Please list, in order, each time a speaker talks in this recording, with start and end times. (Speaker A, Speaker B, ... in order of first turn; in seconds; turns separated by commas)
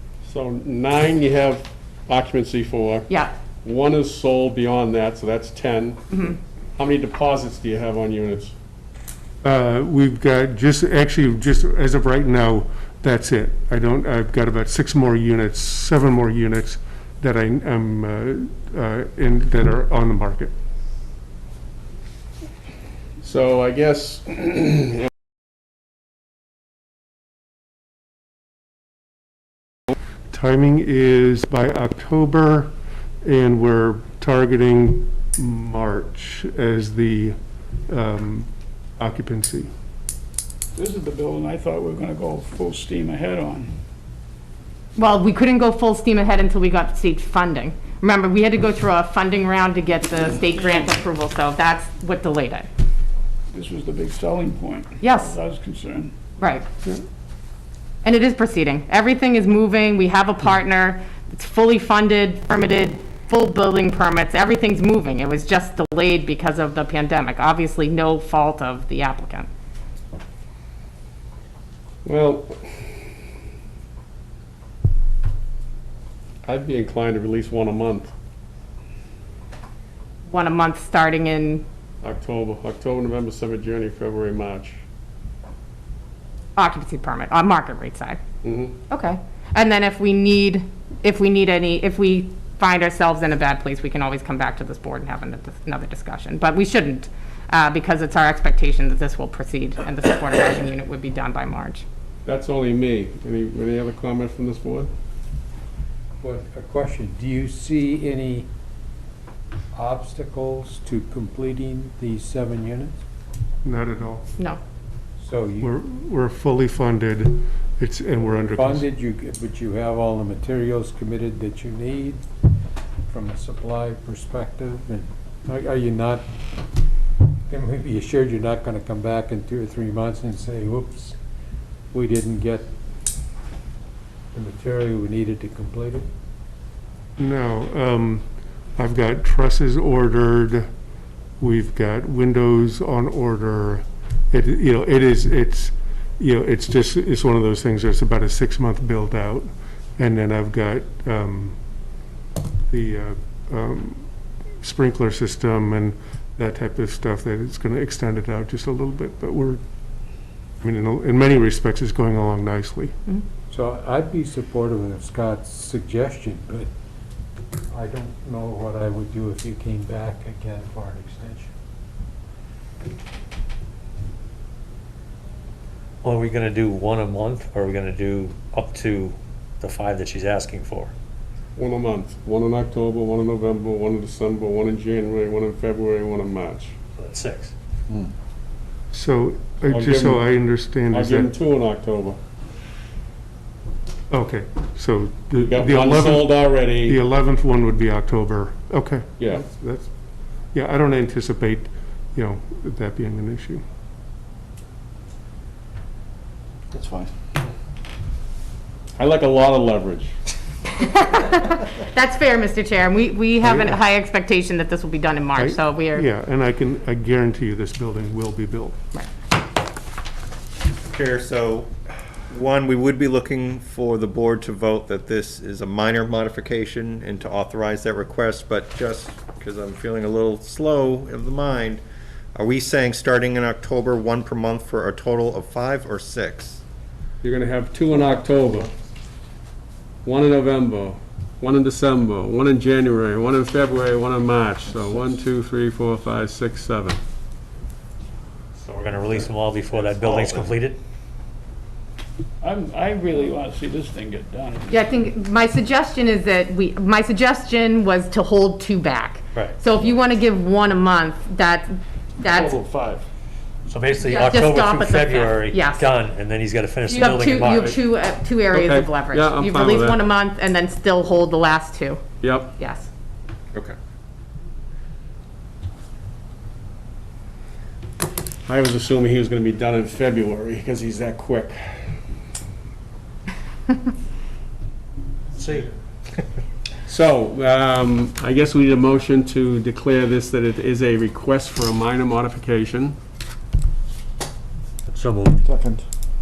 Speaker A: 0.2-3.1, Speaker A: 3.6-6.1, Speaker B: 6.1-6.3, Speaker A: 6.8-8.5, Speaker C: 9.4-20.5, Speaker A: 23.2-25.1, Speaker C: 30.3-37.4, Speaker C: 37.9-38.5, Speaker C: 39.0-39.7, Speaker D: 40.8-43.7, Speaker B: 45.0-52.7, Speaker D: 50.4-50.9, Speaker D: 53.5-56.1, Speaker B: 55.0-55.4, Speaker B: 56.4-56.6, Speaker B: 58.0-69.5, Speaker A: 72.0-72.6, Speaker A: 76.5-78.1, Speaker B: 80.2-81.6, Speaker A: 82.0-84.8, Speaker B: 86.5-88.2, Speaker A: 88.4-88.7, Speaker B: 88.9-101.8, Speaker A: 102.2-104.9, Speaker E: 106.2-108.5, Speaker E: 109.7-113.0, Speaker C: 113.6-114.3, Speaker E: 115.2-115.7, Speaker C: 115.6-118.8, Speaker E: 118.5-122.2, Speaker E: 123.1-126.2, Speaker E: 127.5-131.2, Speaker E: 131.9-132.7, Speaker E: 134.3-136.1, Speaker C: 137.2-138.2, Speaker C: 138.8-140.7, Speaker C: 141.4-149.5, Speaker C: 150.0-151.6, Speaker C: 152.7-154.0, Speaker C: 154.6-159.6, Speaker C: 160.6-162.9, Speaker E: 163.5-166.7, Speaker E: 167.7-171.5, Speaker F: 176.0-180.9, Speaker A: 181.6-186.8, Speaker F: 187.0-187.5, Speaker C: 188.9-191.3, Speaker A: 189.7-190.2, Speaker A: 190.9-192.2, Speaker C: 194.1-199.9, Speaker A: 195.4-197.0, Speaker A: 199.2-199.4, Speaker C: 200.5-203.6, Speaker D: 206.7-207.1, Speaker A: 209.0-210.1, Speaker B: 210.7-216.1, Speaker C: 213.4-213.8, Speaker C: 215.4-218.8, Speaker G: 220.9-231.8, Speaker G: 232.3-236.6, Speaker A: 237.2-238.7, Speaker A: 240.0-247.0, Speaker F: 248.5-250.8, Speaker A: 250.2-250.4, Speaker D: 252.4-254.7, Speaker B: 254.7-262.6, Speaker A: 262.3-263.0, Speaker F: 263.7-267.8, Speaker B: 264.0-265.8, Speaker B: 266.9-272.0, Speaker A: 267.0-267.8, Speaker A: 268.5-270.0, Speaker A: 272.2-272.5, Speaker B: 272.6-272.9, Speaker A: 278.5-281.9, Speaker F: 285.4-285.6, Speaker A: 286.9-292.9, Speaker F: 294.9-295.4, Speaker D: 295.4-295.8